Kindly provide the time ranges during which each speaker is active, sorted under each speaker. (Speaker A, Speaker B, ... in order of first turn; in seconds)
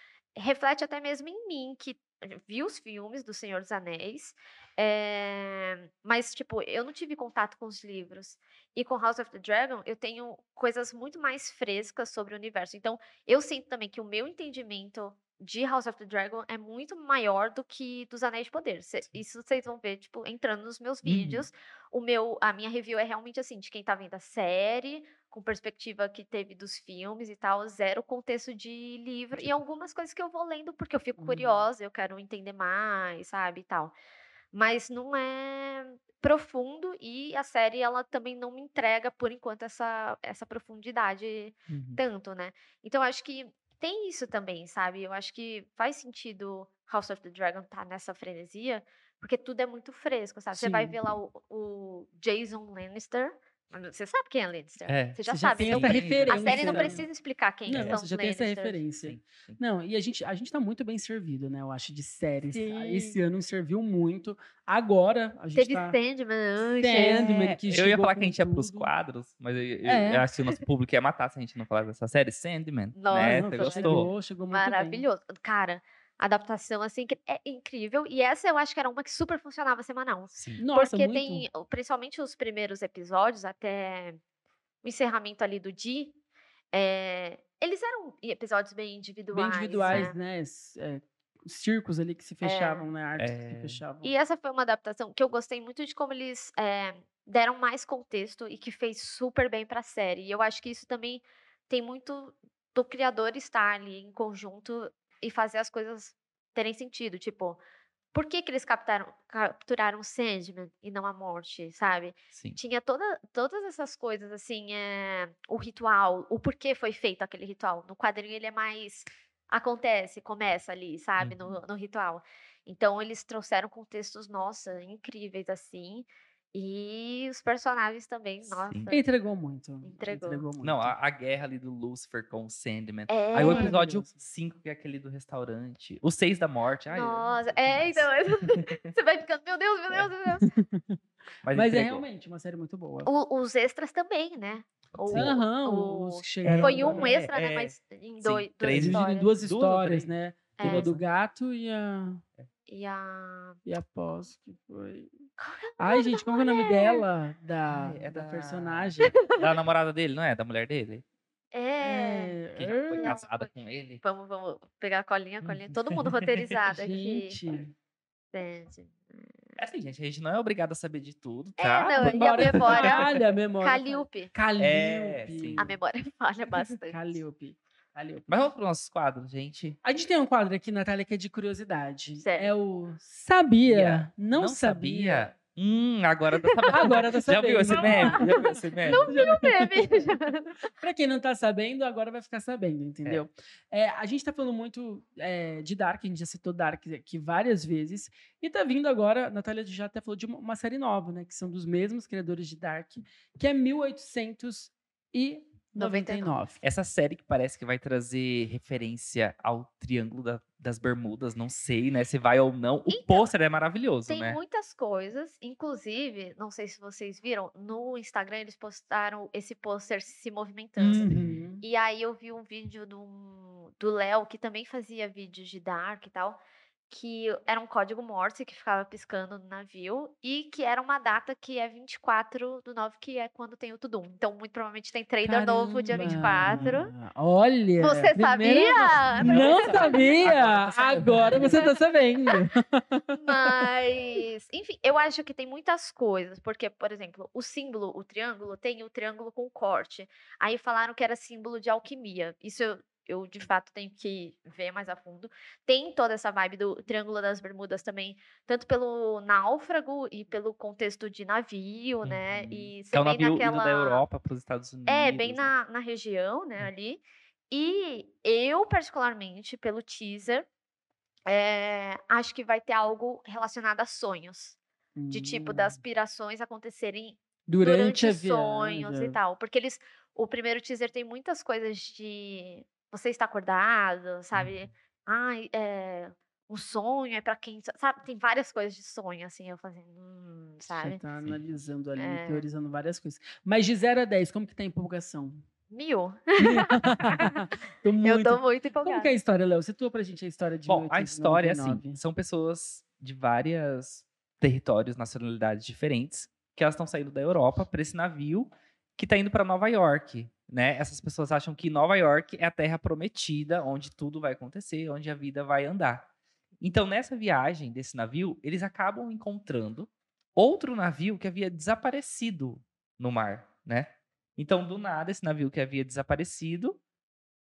Speaker A: 0.3-33.9, 34.5-58.8, 62.5-63.2, 65.5-67.3, 72.9-84.2, 84.8-86.1, 86.7-90.2, 92.4-92.8, 94.0-107.6, 108.1-129.1, 129.8-130.4, 133.1-133.7, 136.9-140.5, 143.0-149.3, 150.6-150.9, 152.7-153.6, 155.4-157.0, 161.5-162.4, 163.0-163.5, 164.0-167.4, 168.3-169.3, 171.6-174.3, 175.6-177.2, 182.2-182.5, 186.4-186.8, 187.7-190.7, 205.8-206.3, 212.9-213.3, 214.1-221.1, 221.6-236.9, 237.8-242.4, 243.1-264.0, 264.9-270.5, 271.2-274.6, 275.1-291.0, 292.0-292.4, 295.7-297.5, 298.0-299.1
Speaker B: 21.0-21.4, 29.4-29.6, 41.7-42.0, 54.9-57.0, 57.7-58.0, 59.0-59.6, 66.9-74.1, 80.3-80.6, 93.2-93.8, 112.3-112.6, 121.2-121.6, 128.4-128.9, 130.6-138.9, 141.4-142.1, 145.0-145.4, 146.4-150.1, 150.6-151.0, 157.7-161.0, 162.6-164.0, 165.4-166.6, 169.6-173.1, 174.6-175.7, 178.3-179.8, 183.7-189.2, 206.6-214.4, 220.8-221.4, 235.9-236.8, 239.1-241.6, 262.0-265.5, 284.3-284.6, 300.7-316.1, 316.6-326.8
Speaker C: 31.2-31.6, 50.5-51.0, 55.2-57.0, 57.6-66.0, 66.8-68.9, 69.8-70.2, 73.1-75.0, 80.6-81.5, 89.3-94.1, 128.9-130.9, 133.4-134.1, 140.4-141.0, 141.5-143.1, 145.1-147.1, 148.7-152.2, 153.7-155.1, 155.8-159.2, 161.8-163.1, 166.7-167.7, 172.0-175.8, 176.9-178.3, 179.8-185.3, 186.7-190.2, 190.8-206.6, 220.8-221.6, 235.2-243.5, 274.9-275.8, 277.5-279.2, 290.7-295.4, 296.4-302.0